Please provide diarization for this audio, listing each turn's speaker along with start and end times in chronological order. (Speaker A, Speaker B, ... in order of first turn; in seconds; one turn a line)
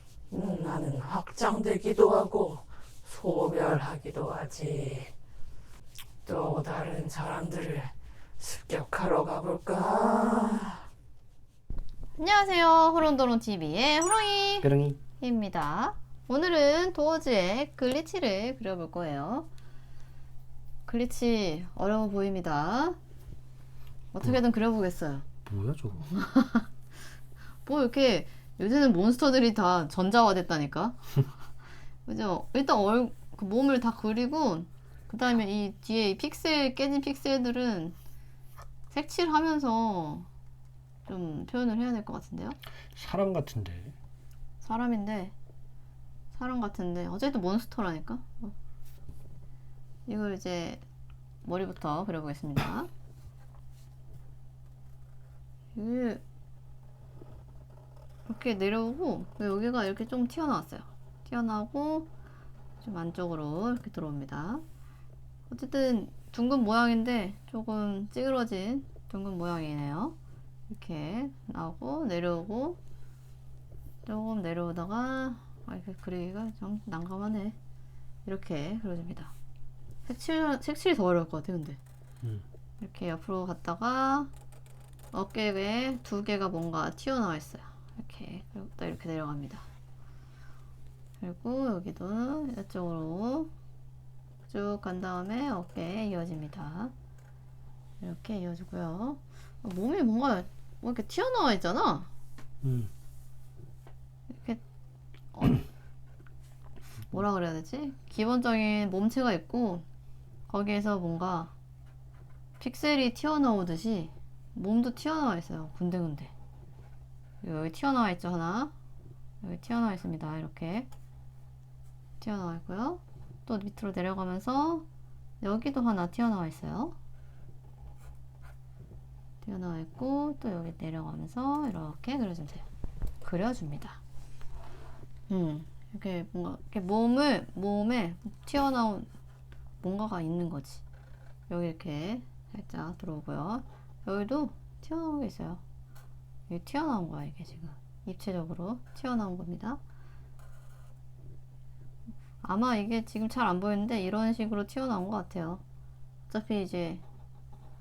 Speaker A: 0.3-5.1
Speaker A: 6.3-10.8
Speaker B: 12.2-19.5
Speaker C: 14.6-15.0
Speaker B: 20.9-23.0
Speaker B: 24.1-25.3
Speaker C: 25.5-26.1
Speaker B: 26.1-26.7
Speaker B: 27.6-31.3
Speaker B: 32.0-38.0
Speaker B: 38.9-40.3
Speaker B: 41.1-42.6
Speaker C: 43.0-44.0
Speaker B: 44.6-45.4
Speaker B: 46.3-48.5
Speaker B: 50.1-50.8
Speaker B: 51.4-52.9
Speaker B: 55.7-56.2
Speaker B: 58.3-62.1
Speaker B: 62.8-64.6
Speaker B: 65.5-70.2
Speaker B: 70.7-72.8
Speaker B: 74.0-77.6
Speaker B: 78.2-79.3
Speaker B: 80.0-81.8
Speaker B: 82.8-84.3
Speaker B: 85.1-89.7
Speaker B: 91.2-93.5
Speaker B: 94.5-96.9
Speaker B: 98.0-102.1
Speaker C: 102.6-102.9
Speaker B: 104.3-104.6
Speaker B: 105.3-105.6
Speaker B: 107.1-109.8
Speaker B: 110.5-111.5
Speaker B: 112.6-116.3
Speaker B: 117.4-118.7
Speaker B: 119.4-120.9
Speaker B: 122.2-124.9
Speaker B: 125.4-127.0
Speaker B: 129.4-132.7
Speaker B: 133.2-134.0
Speaker B: 135.3-139.1
Speaker B: 139.8-140.8
Speaker B: 141.5-145.6
Speaker B: 146.5-149.8
Speaker B: 152.4-155.6
Speaker B: 156.3-157.0